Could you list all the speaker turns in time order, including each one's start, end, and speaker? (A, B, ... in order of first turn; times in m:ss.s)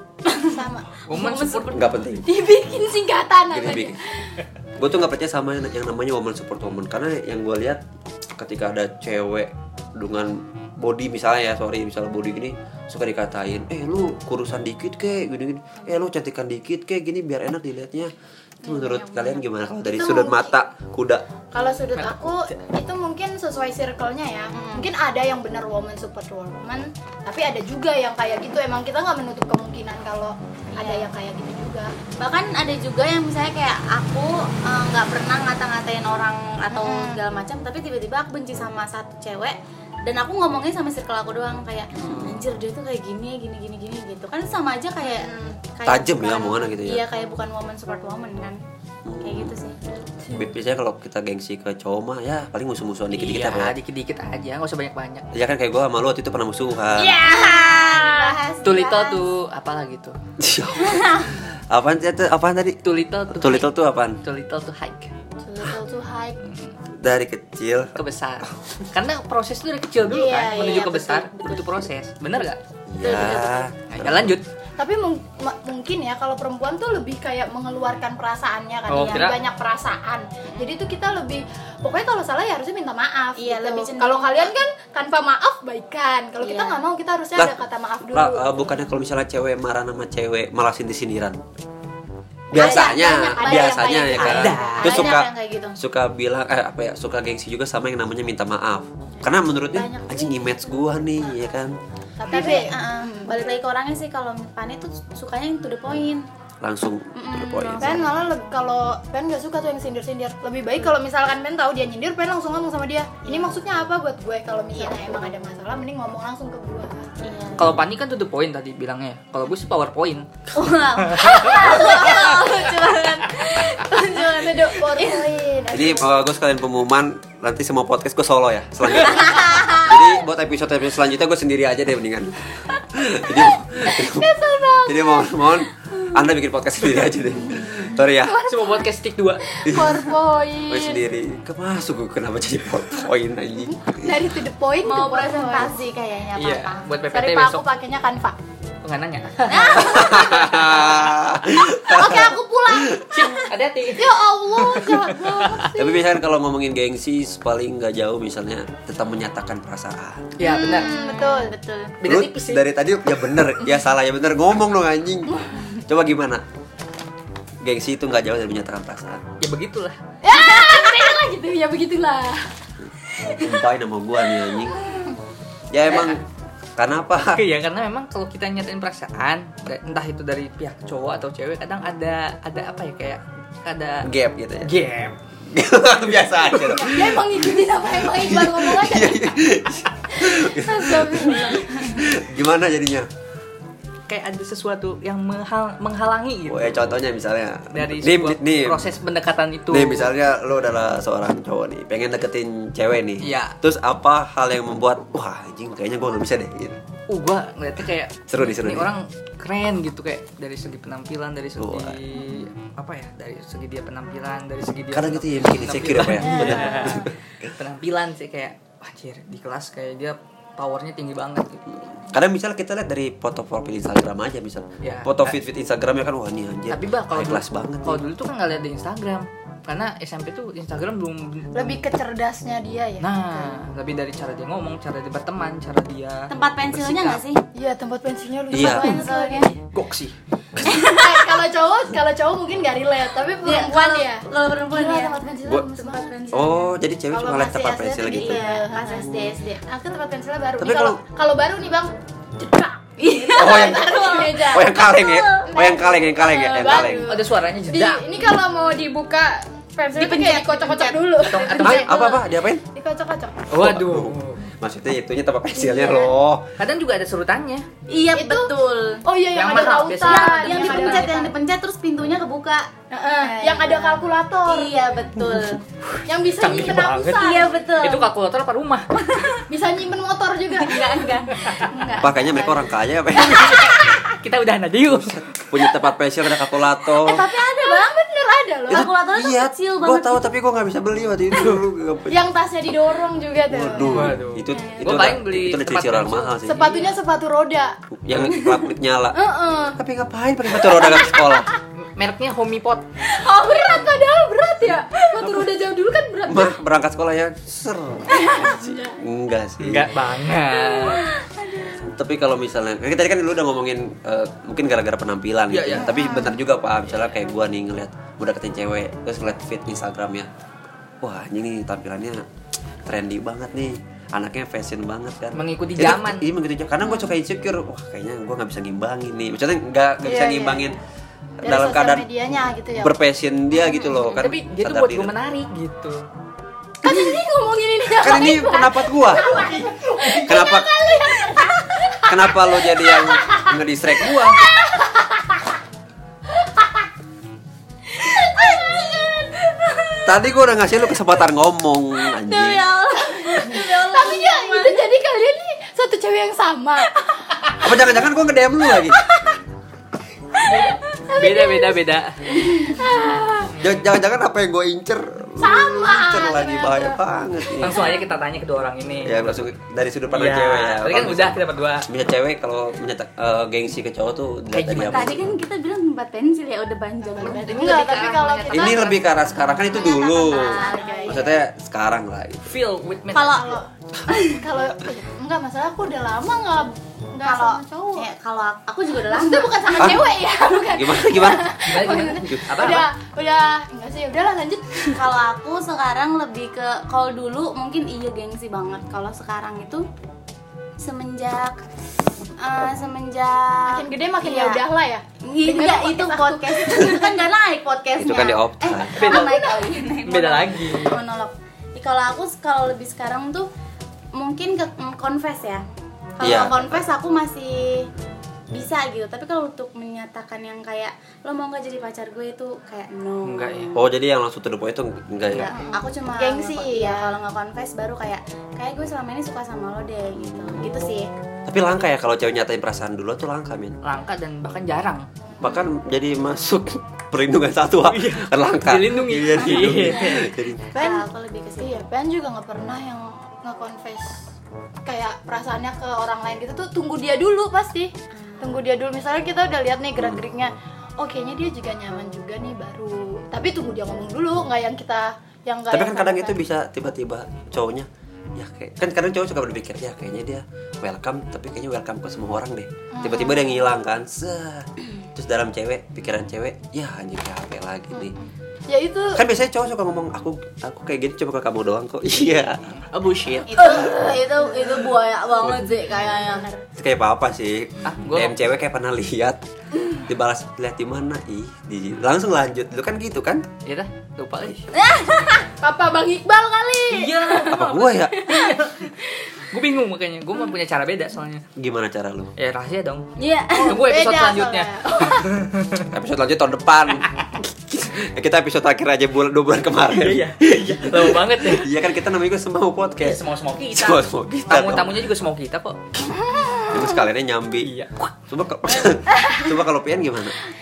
0:00.3-0:04.0 A
0:01.1-0:01.9 B
0:01.7-0:02.3 C
0:03.5-0:04.0 C
0:04.8-0:07.8 C
0:08.4-0:21.2 C
0:19.8-0:20.5 A
0:21.5-0:31.9 A
0:21.9-0:22.5 B
0:24.5-0:24.9 D
0:30.7-0:31.1 D
0:32.2-0:48.6 D
0:36.7-0:37.2 A
0:41.9-0:42.4 C
0:45.0-0:45.6 A
0:45.8-0:47.0 C
0:49.0-0:49.5 C
0:49.2-0:49.7 D
0:50.3-0:53.7 C
0:53.1-0:55.3 B
0:55.3-0:57.2 C
0:57.0-0:59.2 D
0:57.2-0:58.4 A
0:58.6-1:00.2 B
1:00.4-1:04.2 C
1:00.9-1:01.3 D
1:02.8-1:03.7 B
1:04.2-1:05.1 B
1:05.4-1:06.4 A
1:06.4-1:06.7 B
1:07.0-1:08.5 C
1:08.0-1:12.6 B
1:10.1-1:11.7 D
1:12.9-1:14.4 C
1:13.0-1:13.6 D
1:13.9-1:14.4 B
1:14.8-1:28.4 A
1:18.9-1:19.4 B
1:20.4-1:20.7 D
1:23.4-1:24.5 D
1:26.4-1:26.8 D
1:28.1-1:31.4 C
1:32.5-1:41.8 C
1:32.5-1:35.1 A
1:32.5-1:35.8 D
1:34.2-1:35.1 B
1:39.7-1:40.3 A
1:42.2-1:43.4 A
1:42.3-1:46.2 D
1:46.6-1:48.1 C
1:47.1-1:48.3 D
1:47.8-1:57.1 A
1:53.2-1:53.5 D
1:54.8-1:55.3 D
1:57.2-1:57.8 D
1:57.6-2:00.3 B
2:00.5-2:05.3 D
2:01.1-2:02.2 B
2:01.5-2:02.3 A
2:03.9-2:06.1 A
2:05.7-2:18.4 C
2:09.0-2:10.0 D
2:13.8-2:15.5 A
2:18.0-2:18.9 A
2:18.4-2:19.5 B
2:19.5-2:21.0 A
2:19.6-2:20.1 C
2:20.6-2:24.2 C
2:24.0-2:25.8 A
2:24.8-2:26.9 D
2:26.4-2:27.6 B
2:27.1-2:28.4 A
2:28.8-2:29.9 B
2:29.5-2:30.7 D
2:29.8-2:33.1 C
2:31.9-2:33.3 A
2:33.1-2:35.7 B
2:34.0-2:36.0 A
2:35.7-2:40.4 C
2:40.4-2:40.9 B
2:40.4-2:41.5 A
2:40.4-2:42.0 D
2:42.0-2:42.6 B
2:42.0-2:46.4 C
2:47.6-2:49.2 C
2:49.4-2:50.0 B
2:50.2-2:52.5 A
2:50.3-2:50.9 D
2:53.2-2:53.5 A
2:53.4-2:54.8 C
2:54.7-2:55.2 A
2:55.7-2:56.2 C
2:55.9-2:56.2 B
2:56.8-2:57.4 C
2:57.2-3:04.1 B
3:04.0-3:04.7 C
3:04.6-3:05.1 B
3:05.5-3:13.1 C
3:06.8-3:09.4 A
3:10.1-3:12.1 A
3:14.1-3:16.7 B
3:16.5-3:18.8 C
3:17.7-3:20.1 B
3:19.7-3:26.8 C
3:23.2-3:23.5 B
3:27.1-3:41.8 B
3:28.3-3:28.9 C
3:31.6-3:32.4 C
3:34.9-3:37.1 C
3:36.4-3:36.9 D
3:36.4-3:36.9 A
3:42.0-3:48.0 C
3:44.8-3:45.4 B
3:46.7-3:51.8 B
3:51.5-3:53.5 A
3:53.0-3:57.2 B
3:56.3-3:57.4 D
3:57.5-3:59.5 A
3:58.5-3:59.0 C
3:58.5-3:59.6 D
3:59.6-4:00.1 B
4:00.5-4:00.8 C
4:00.6-4:01.4 D
4:00.8-4:06.2 A
4:03.4-4:05.2 D
4:05.7-4:06.7 D
4:06.3-4:08.4 C
4:07.1-4:14.8 A
4:08.0-4:09.6 D
4:10.6-4:11.0 C
4:13.0-4:15.5 D
4:13.4-4:17.1 C
4:15.5-4:23.4 A
4:17.1-4:18.3 B
4:19.9-4:22.2 D
4:21.2-4:22.1 B
4:21.6-4:22.6 C
4:23.5-4:24.5 B
4:23.5-4:26.4 C
4:25.6-4:26.1 A
4:26.6-4:27.7 B
4:27.9-4:29.0 D
4:28.1-4:28.5 A
4:29.0-4:31.3 A
4:29.3-4:31.1 B
4:30.0-4:35.6 D
4:32.9-4:34.7 A
4:35.8-4:39.4 B
4:36.1-4:37.6 A
4:37.1-4:38.0 D
4:39.5-4:41.2 A
4:40.6-4:42.7 D
4:41.3-4:41.7 B
4:42.0-4:43.8 C
4:43.1-4:45.4 B
4:44.9-4:47.2 C
4:47.0-4:47.9 D
4:47.0-4:48.9 A
4:48.7-4:50.3 D
4:48.7-4:52.2 C
4:51.3-4:51.6 B
4:52.1-4:54.7 A
4:53.5-4:56.8 C
4:53.8-4:57.0 B
4:56.4-4:57.8 A
4:58.0-4:59.2 C
4:58.3-4:58.6 A
4:59.1-4:59.8 A
4:59.7-5:01.5 C
5:00.5-5:01.6 A
5:01.8-5:02.8 B
5:03.0-5:06.5 A
5:06.3-5:09.9 C
5:08.1-5:09.0 A
5:09.6-5:11.0 B
5:10.6-5:11.8 A
5:11.8-5:20.3 C
5:15.5-5:16.0 B
5:16.0-5:16.3 A
5:16.0-5:16.3 D
5:21.0-5:22.2 C
5:22.8-5:30.8 C
5:25.3-5:26.2 B
5:30.0-5:30.6 A
5:31.4-5:32.9 A
5:31.4-5:35.1 C
5:33.6-5:34.0 A
5:34.2-5:36.0 B
5:36.8-5:45.5 A
5:38.0-5:39.4 C
5:39.2-5:40.2 B
5:40.2-5:40.7 C
5:42.1-5:44.4 C
5:46.3-5:46.9 A
5:48.0-5:49.3 A
5:48.1-5:48.9 D
5:50.0-5:52.6 C
5:52.2-5:54.8 D
5:53.0-5:56.9 A
5:57.6-5:59.0 C
6:00.4-6:02.2 B
6:00.4-6:03.5 A
6:03.5-6:03.8 B
6:03.6-6:08.0 C
6:05.4-6:07.0 A
6:07.6-6:09.5 B
6:09.0-6:15.3 C
6:10.1-6:11.9 B
6:14.5-6:15.2 B
6:14.8-6:18.0 D
6:17.0-6:18.9 A
6:17.2-6:19.1 B
6:18.5-6:22.5 C
6:19.7-6:21.3 D
6:19.7-6:21.3 A
6:22.4-6:23.5 B
6:23.1-6:24.4 D
6:23.2-6:23.6 A
6:24.2-6:28.1 A
6:27.2-6:30.0 D
6:29.0-6:35.1 A
6:29.8-6:32.7 C
6:31.7-6:32.9 B
6:34.9-6:39.9 D
6:40.8-6:41.6 D
6:42.4-6:44.6 D
6:43.6-6:47.2 A
6:45.2-6:53.5 D
6:48.0-6:49.0 C
6:49.0-6:51.0 B
6:49.0-6:49.9 A
6:54.1-6:55.6 D
6:56.2-6:57.9 D
6:56.2-6:56.8 C
6:58.5-7:03.9 D
7:03.2-7:03.7 B
7:03.8-7:05.6 C
7:05.3-7:11.1 D
7:05.4-7:07.2 A
7:10.2-7:10.8 C
7:11.4-7:13.8 C
7:13.8-7:15.0 B
7:15.4-7:20.7 C
7:17.9-7:20.3 B
7:20.7-7:24.2 A
7:20.8-7:21.8 D
7:24.8-7:36.4 A
7:28.1-7:28.6 D
7:30.0-7:30.2 C
7:35.7-7:48.1 C
7:42.9-7:43.7 A
7:48.7-7:49.2 A
7:49.1-7:52.8 C
7:52.9-7:53.8 B
7:53.5-7:56.5 D
7:53.5-7:54.9 A
7:55.6-7:56.6 A
7:56.8-7:59.4 C
7:57.8-7:58.4 B
8:00.0-8:03.4 C
8:03.6-8:04.7 B
8:04.7-8:05.5 D
8:05.6-8:07.6 A
8:06.9-8:11.4 B
8:07.5-8:08.3 C
8:11.6-8:12.3 C
8:12.4-8:13.1 B
8:13.2-8:13.8 D
8:13.5-8:15.4 A
8:13.7-8:15.9 B
8:15.9-8:25.1 C
8:19.9-8:21.7 B
8:23.0-8:25.8 B
8:26.0-8:27.0 A
8:26.7-8:27.7 C
8:27.6-8:28.0 B
8:28.3-8:30.4 C
8:29.1-8:29.5 A